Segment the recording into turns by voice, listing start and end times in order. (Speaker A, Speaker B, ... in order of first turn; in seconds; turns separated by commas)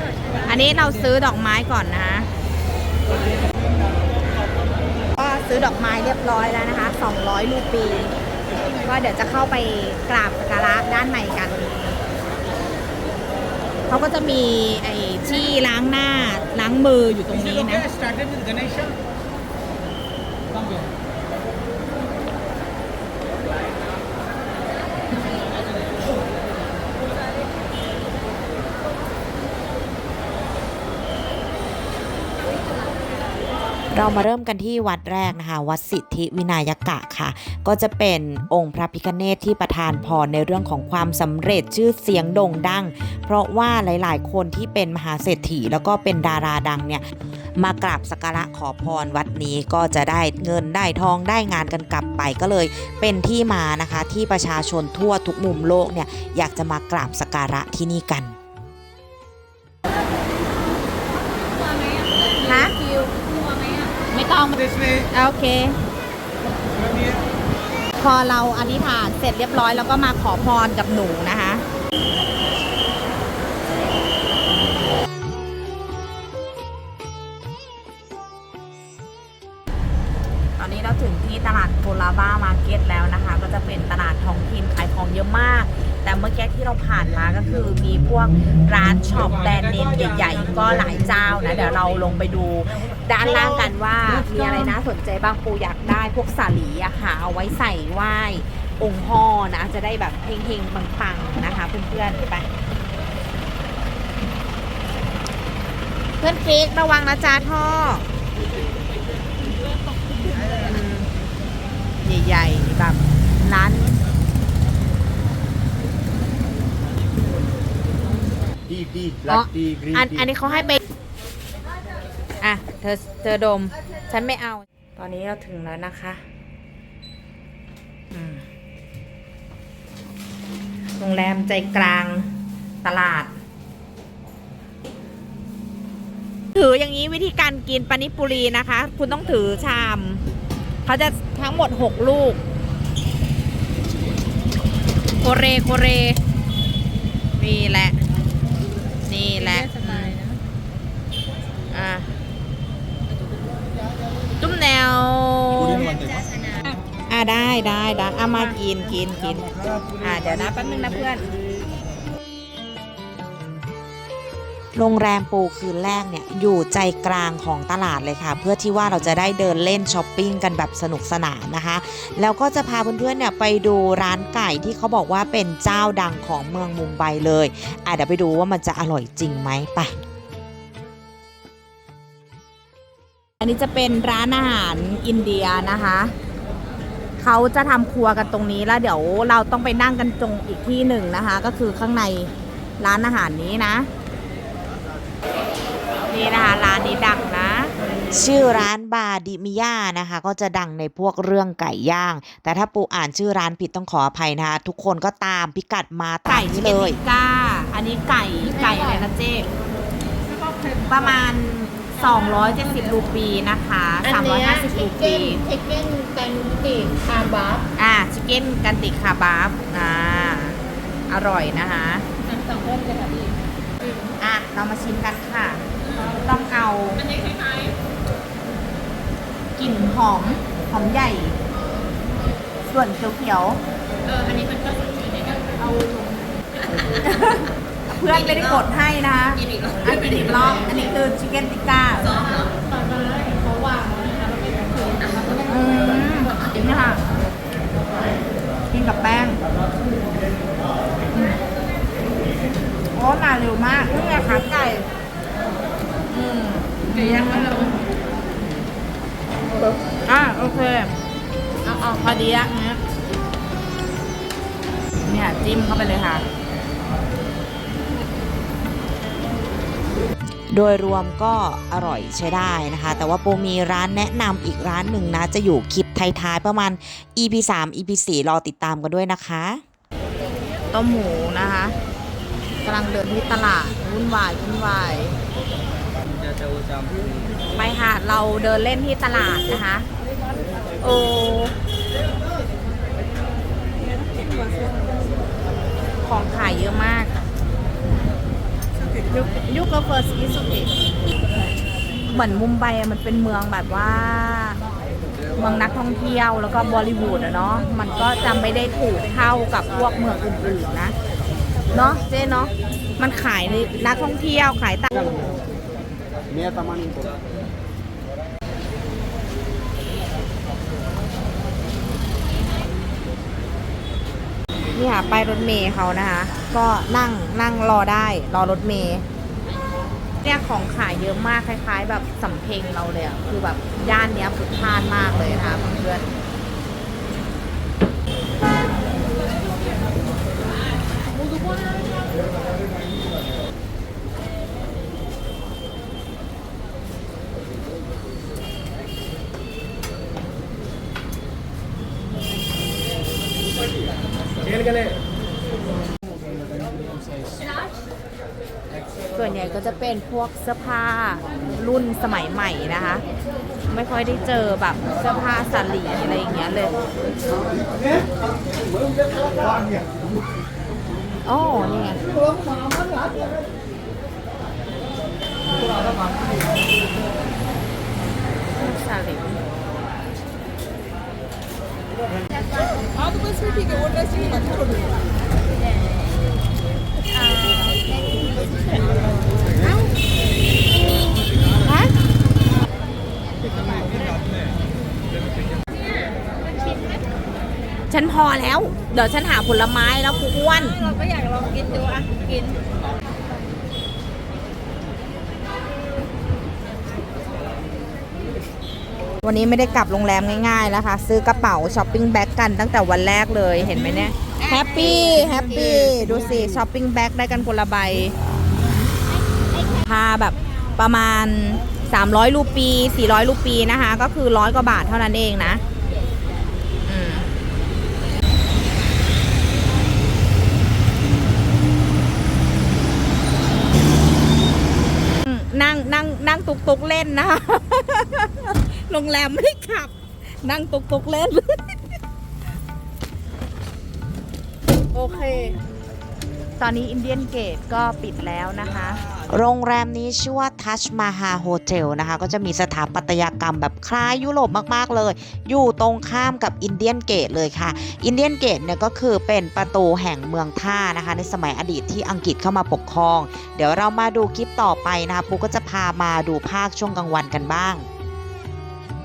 Speaker A: 0.5-2.3, Speaker A: 5.1-8.1, Speaker A: 8.8-11.7, Speaker A: 13.9-17.9, Speaker B: 33.9-47.0, Speaker B: 47.6-58.3, Speaker A: 62.4-62.8, Speaker C: 62.8-63.9, Speaker A: 64.1-65.8, Speaker A: 68.0-71.6, Speaker A: 80.6-102.5, Speaker A: 106.2-108.0, Speaker A: 110.6-111.1, Speaker A: 112.0-114.0, Speaker D: 118.7-120.2, Speaker A: 119.3-120.8, Speaker A: 122.4-126.2, Speaker A: 128.1-128.4, Speaker A: 131.0-132.3, Speaker A: 132.8-133.3, Speaker A: 136.5-140.2, Speaker A: 140.8-142.4, Speaker A: 145.2-146.2, Speaker A: 147.4-148.0, Speaker A: 149.1-150.2, Speaker A: 151.7-152.1, Speaker A: 154.4-155.9, Speaker D: 155.6-156.2, Speaker A: 156.7-159.5, Speaker A: 160.0-161.3, Speaker B: 164.7-179.9, Speaker A: 183.4-186.1, Speaker A: 187.2-193.9, Speaker A: 196.1-197.7, Speaker B: 198.1-207.0, Speaker A: 206.3-209.5, Speaker A: 210.8-215.4, Speaker C: 214.1-217.6, Speaker A: 217.8-222.0, Speaker C: 222.2-223.3, Speaker A: 224.2-225.6, Speaker A: 226.2-227.0, Speaker C: 227.0-227.3, Speaker A: 229.6-231.4, Speaker A: 232.7-233.6, Speaker C: 234.1-235.9, Speaker A: 237.0-242.1, Speaker C: 244.8-245.3, Speaker A: 245.4-247.0, Speaker A: 248.7-249.4, Speaker A: 251.1-251.4, Speaker A: 252.9-254.8, Speaker A: 256.1-257.8, Speaker A: 260.0-260.9, Speaker A: 261.6-262.8, Speaker A: 265.0-266.2, Speaker B: 270.5-279.6, Speaker A: 280.7-281.7, Speaker A: 282.6-285.1, Speaker A: 287.5-289.9, Speaker A: 290.8-291.5, Speaker A: 296.0-297.2, Speaker A: 299.1-300.7, Speaker A: 302.1-304.6, Speaker A: 305.4-310.9, Speaker A: 311.7-315.1, Speaker A: 324.7-329.0, Speaker A: 330.2-336.0, Speaker A: 359.1-363.0, Speaker A: 363.7-366.8, Speaker A: 371.2-372.0, Speaker A: 378.6-379.4, Speaker A: 389.6-389.9, Speaker A: 391.6-391.9, Speaker A: 397.9-400.8, Speaker C: 400.8-402.4, Speaker A: 409.2-418.1, Speaker A: 419.7-425.6, Speaker A: 426.9-427.3, Speaker A: 435.2-441.8, Speaker A: 444.9-445.6, Speaker A: 446.6-449.0, Speaker B: 449.3-467.9